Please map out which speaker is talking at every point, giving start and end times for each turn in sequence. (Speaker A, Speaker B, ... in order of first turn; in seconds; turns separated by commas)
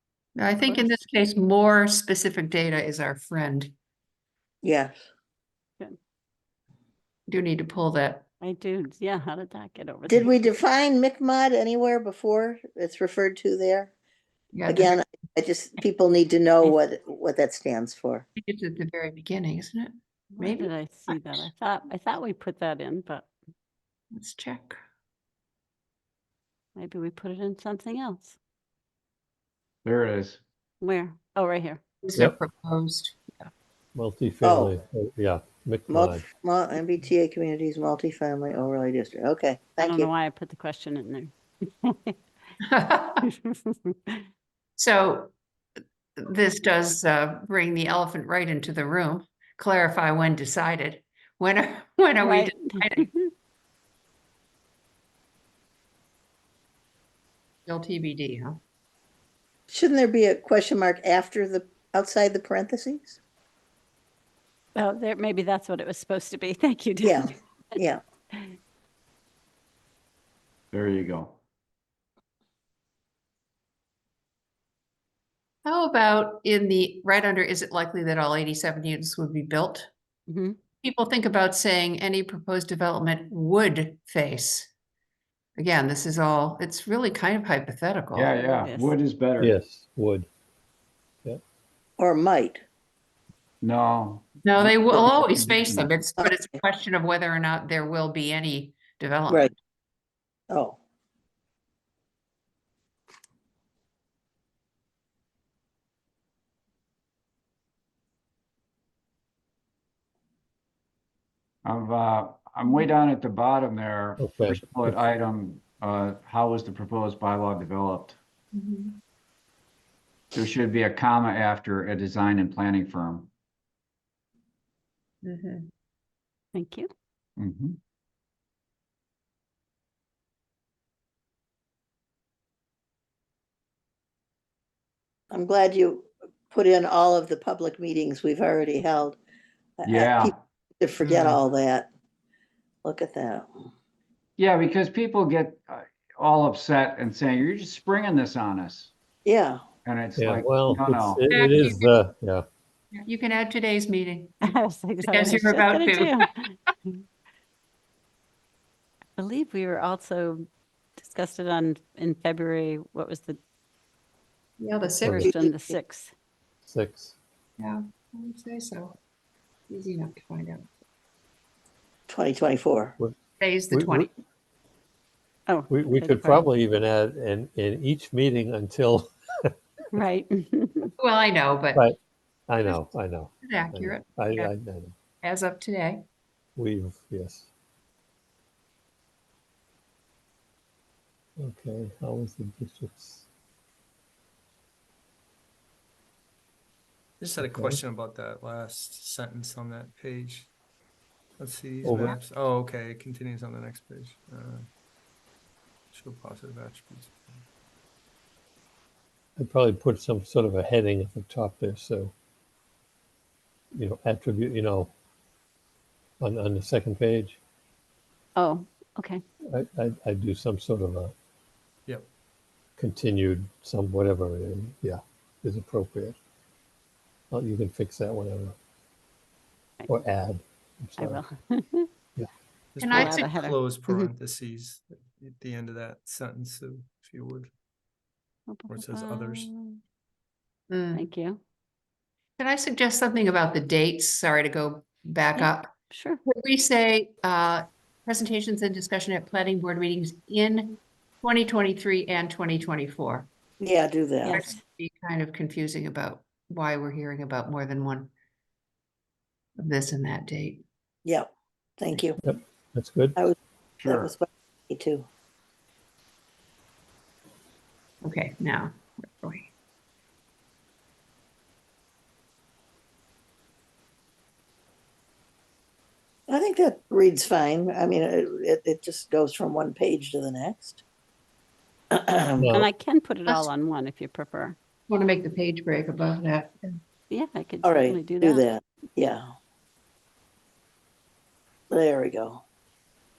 Speaker A: 0.4-3.7, Speaker B: 0.6-0.9, Speaker C: 4.6-5.0, Speaker A: 7.3-8.3, Speaker B: 8.4-10.5, Speaker C: 10.1-13.9, Speaker A: 14.5-14.9, Speaker C: 14.7-18.2, Speaker A: 18.4-21.3, Speaker B: 20.4-23.3, Speaker A: 24.1-24.8, Speaker B: 26.8-28.4, Speaker D: 29.8-30.4, Speaker B: 30.8-31.8, Speaker A: 32.0-33.5, Speaker E: 34.0-36.2, Speaker C: 34.4-34.7, Speaker C: 35.9-40.1, Speaker B: 39.8-42.2, Speaker A: 42.6-43.3, Speaker B: 43.2-44.2, Speaker A: 44.8-45.3, Speaker A: 46.2-53.1, Speaker B: 52.2-53.3, Speaker A: 57.7-58.6, Speaker C: 59.7-63.2, Speaker B: 64.8-67.3, Speaker C: 67.0-68.0, Speaker D: 70.7-71.4, Speaker A: 75.7-79.9, Speaker B: 80.3-80.6, Speaker A: 80.8-84.7, Speaker A: 85.6-88.3, Speaker D: 88.2-89.5, Speaker B: 88.4-88.9, Speaker E: 89.4-90.3, Speaker C: 92.0-92.6, Speaker D: 93.6-95.9, Speaker A: 94.5-99.5, Speaker C: 96.2-96.6, Speaker C: 100.5-100.8, Speaker D: 111.7-118.2, Speaker E: 114.2-115.0, Speaker A: 118.5-119.0, Speaker D: 120.3-123.3, Speaker A: 125.2-125.7, Speaker B: 126.5-126.9, Speaker D: 127.4-127.8, Speaker C: 135.3-139.2, Speaker C: 139.8-141.9, Speaker D: 139.8-140.4, Speaker F: 141.1-141.4, Speaker C: 142.8-143.7, Speaker D: 144.4-148.9, Speaker C: 149.2-149.6, Speaker D: 149.8-151.2, Speaker E: 150.2-152.5, Speaker A: 151.3-151.9, Speaker A: 152.9-154.3, Speaker B: 154.4-156.3, Speaker A: 155.0-156.2, Speaker B: 159.2-160.5, Speaker B: 161.0-163.4, Speaker A: 164.6-165.3, Speaker E: 165.0-165.3, Speaker B: 165.2-166.1, Speaker C: 165.2-165.8, Speaker E: 166.7-167.2, Speaker A: 167.6-169.0, Speaker A: 169.7-170.7, Speaker C: 172.1-172.9, Speaker A: 173.4-174.1, Speaker E: 173.7-174.1, Speaker B: 175.5-176.5, Speaker E: 175.7-179.5, Speaker B: 179.9-180.9, Speaker A: 181.0-181.8, Speaker E: 182.5-185.0, Speaker A: 183.4-184.5, Speaker A: 185.2-186.0, Speaker E: 186.6-187.5, Speaker E: 191.4-193.3, Speaker F: 197.2-200.5, Speaker E: 197.4-197.8, Speaker F: 201.4-204.7, Speaker E: 201.8-202.2, Speaker F: 205.9-207.4, Speaker E: 209.4-212.1, Speaker E: 213.7-214.9, Speaker E: 216.2-217.4, Speaker B: 218.4-219.2, Speaker E: 219.5-221.1, Speaker E: 222.8-226.2, Speaker E: 227.3-228.6, Speaker E: 229.9-231.2, Speaker B: 231.0-231.9, Speaker F: 232.7-237.5, Speaker A: 232.8-233.2, Speaker B: 232.8-234.1, Speaker B: 238.5-239.8, Speaker F: 238.7-239.5, Speaker A: 240.7-241.1, Speaker B: 240.9-241.4, Speaker A: 242.4-245.7, Speaker B: 245.4-246.2, Speaker A: 246.3-253.3, Speaker C: 253.6-254.4, Speaker B: 254.2-254.6, Speaker A: 254.3-258.1, Speaker A: 259.6-260.6, Speaker C: 261.8-262.2, Speaker E: 262.2-263.2, Speaker D: 263.8-264.1, Speaker C: 263.9-265.1, Speaker A: 268.0-269.5, Speaker C: 276.3-280.8, Speaker C: 281.9-282.5, Speaker E: 282.4-282.7, Speaker B: 282.5-284.6, Speaker A: 284.9-286.8, Speaker B: 287.1-288.4, Speaker C: 287.6-289.3, Speaker C: 291.7-292.4